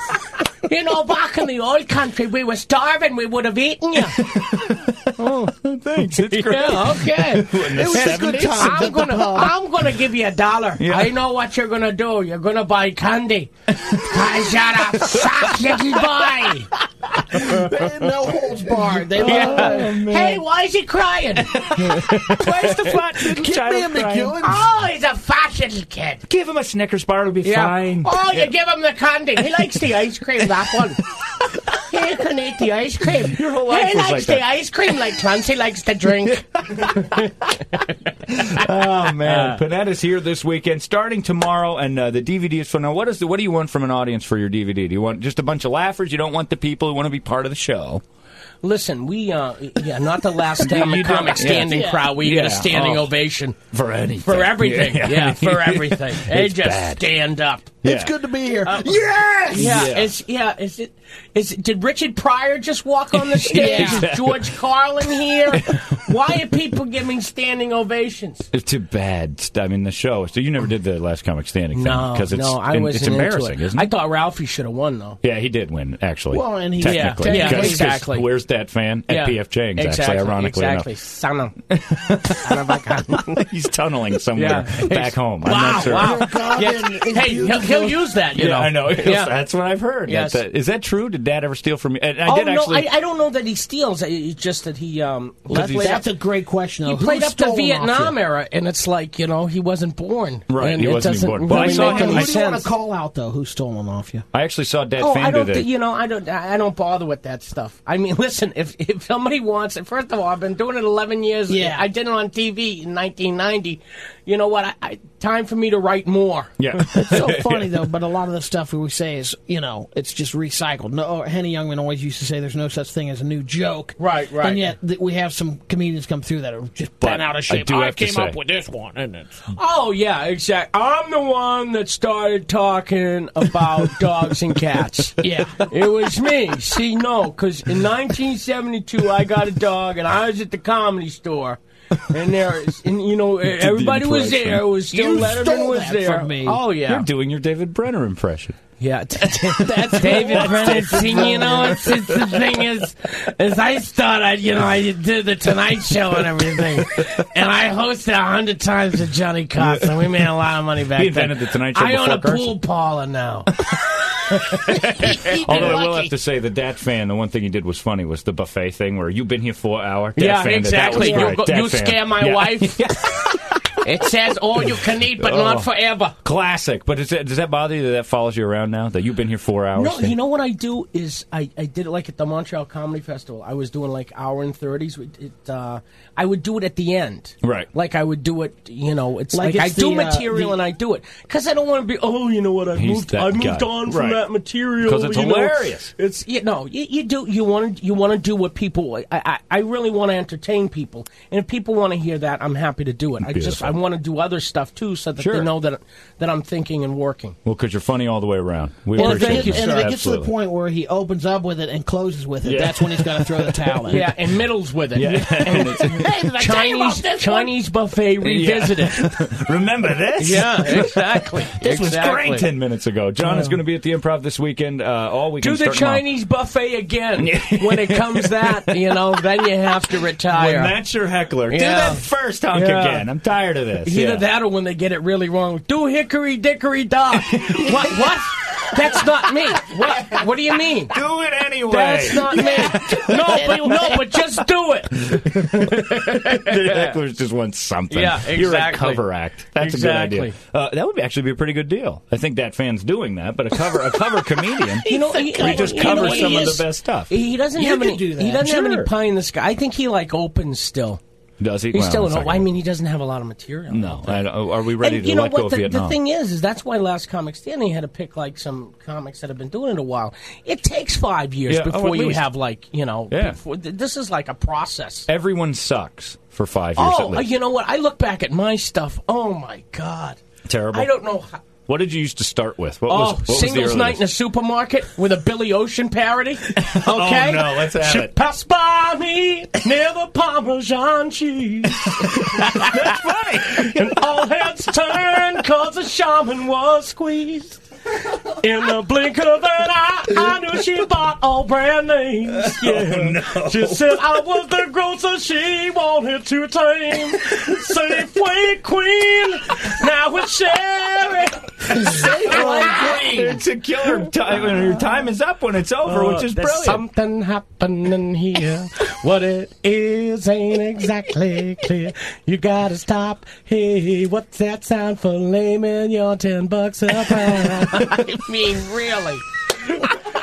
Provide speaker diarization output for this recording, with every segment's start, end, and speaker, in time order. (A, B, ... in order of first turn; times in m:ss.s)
0:00.6-0:04.3 A
0:04.1-0:09.0 B
0:05.2-0:05.5 A
0:06.2-0:16.7 A
0:07.6-0:09.5 C
0:10.8-0:11.1 B
0:13.8-0:16.0 B
0:17.3-0:20.0 C
0:17.4-0:17.6 A
0:19.2-0:20.4 B
0:19.2-0:23.0 A
0:21.5-0:24.4 B
0:23.1-0:24.7 C
0:24.4-0:26.2 A
0:26.3-0:28.5 B
0:27.4-0:31.0 A
0:31.7-0:38.7 A
0:33.2-0:35.0 B
0:36.6-0:37.3 B
0:38.3-0:48.0 B
0:39.3-0:39.6 A
0:48.6-0:53.6 A
0:50.6-0:53.1 B
0:51.6-0:52.1 C
0:53.7-0:57.0 B
0:54.2-0:57.7 A
0:57.8-0:58.1 B
0:57.8-0:59.9 C
0:59.5-1:08.5 A
0:59.5-1:00.1 B
1:03.3-1:04.6 B
1:03.5-1:04.1 C
1:05.5-1:06.0 B
1:08.5-1:13.9 B
1:11.7-1:15.2 A
1:15.2-1:20.9 B
1:16.3-1:18.0 C
1:16.8-1:18.2 A
1:19.1-1:21.5 A
1:21.7-1:22.6 B
1:22.4-1:23.4 A
1:23.2-1:26.3 B
1:24.3-1:29.3 A
1:25.8-1:28.0 C
1:28.3-1:32.9 B
1:30.1-1:30.4 A
1:32.2-1:36.0 A
1:35.5-1:36.0 B
1:35.5-1:38.2 C
1:36.8-1:42.7 A
1:40.5-1:42.3 B
1:41.5-1:44.2 C
1:44.3-1:45.7 B
1:45.0-1:56.6 A
1:51.5-1:51.8 C
1:56.6-1:57.8 B
1:56.9-2:08.9 C
2:04.0-2:04.6 A
2:07.0-2:09.0 B
2:09.5-2:27.0 A
2:15.2-2:15.7 C
2:23.4-2:24.7 B
2:24.9-2:26.6 C
2:26.8-2:28.6 B
2:28.8-2:43.5 A
2:29.4-2:32.4 B
2:29.6-2:31.9 C
2:36.8-2:37.0 B
2:39.6-2:40.3 B
2:41.0-2:42.6 B
2:43.6-2:44.6 B
2:44.2-2:45.8 A
2:45.0-2:46.1 C
2:45.4-2:53.8 B
2:50.2-2:53.2 A
2:50.9-2:51.4 C
2:53.8-2:56.1 A
2:55.0-2:55.7 B
2:56.2-3:00.2 B
2:59.8-3:27.4 A
3:07.4-3:07.7 B
3:09.3-3:10.6 C
3:12.7-3:14.2 B
3:14.8-3:15.9 B
3:23.2-3:23.7 B
3:25.2-3:25.5 B
3:27.4-3:30.3 B
3:29.0-3:29.9 A
3:29.0-3:34.1 C
3:32.4-3:34.3 B
3:33.9-3:39.1 A
3:34.9-3:36.2 B
3:35.8-3:37.5 C
3:38.2-3:46.0 B
3:40.2-3:42.4 A
3:43.2-3:43.6 A
3:45.4-3:50.7 A
3:47.2-3:48.8 B
3:50.3-3:54.2 B
3:51.5-3:52.0 A
3:52.5-3:53.0 A
3:53.8-4:01.0 A
3:57.3-4:04.0 B
3:59.7-4:00.0 C
4:01.7-4:07.0 A
4:02.3-4:04.0 C
4:05.0-4:17.1 B
4:07.9-4:09.0 A
4:09.6-4:10.3 A
4:14.8-4:16.6 C
4:14.8-4:21.0 A
4:17.5-4:18.5 C
4:18.4-4:18.9 B
4:21.4-4:22.5 B
4:21.7-4:35.1 A
4:23.7-4:26.0 B
4:31.5-4:32.3 B
4:33.1-4:33.4 B
4:35.1-4:37.3 B
4:36.8-4:40.2 A
4:40.5-4:40.9 B
4:40.7-4:41.4 A
4:41.6-4:44.1 B
4:42.9-4:52.9 A
4:46.6-4:48.1 B
4:52.0-4:54.0 B
4:53.6-4:57.6 A
4:58.2-5:13.1 A
5:02.4-5:04.0 B
5:11.7-5:13.4 C
5:11.8-5:16.8 B
5:15.8-5:30.0 A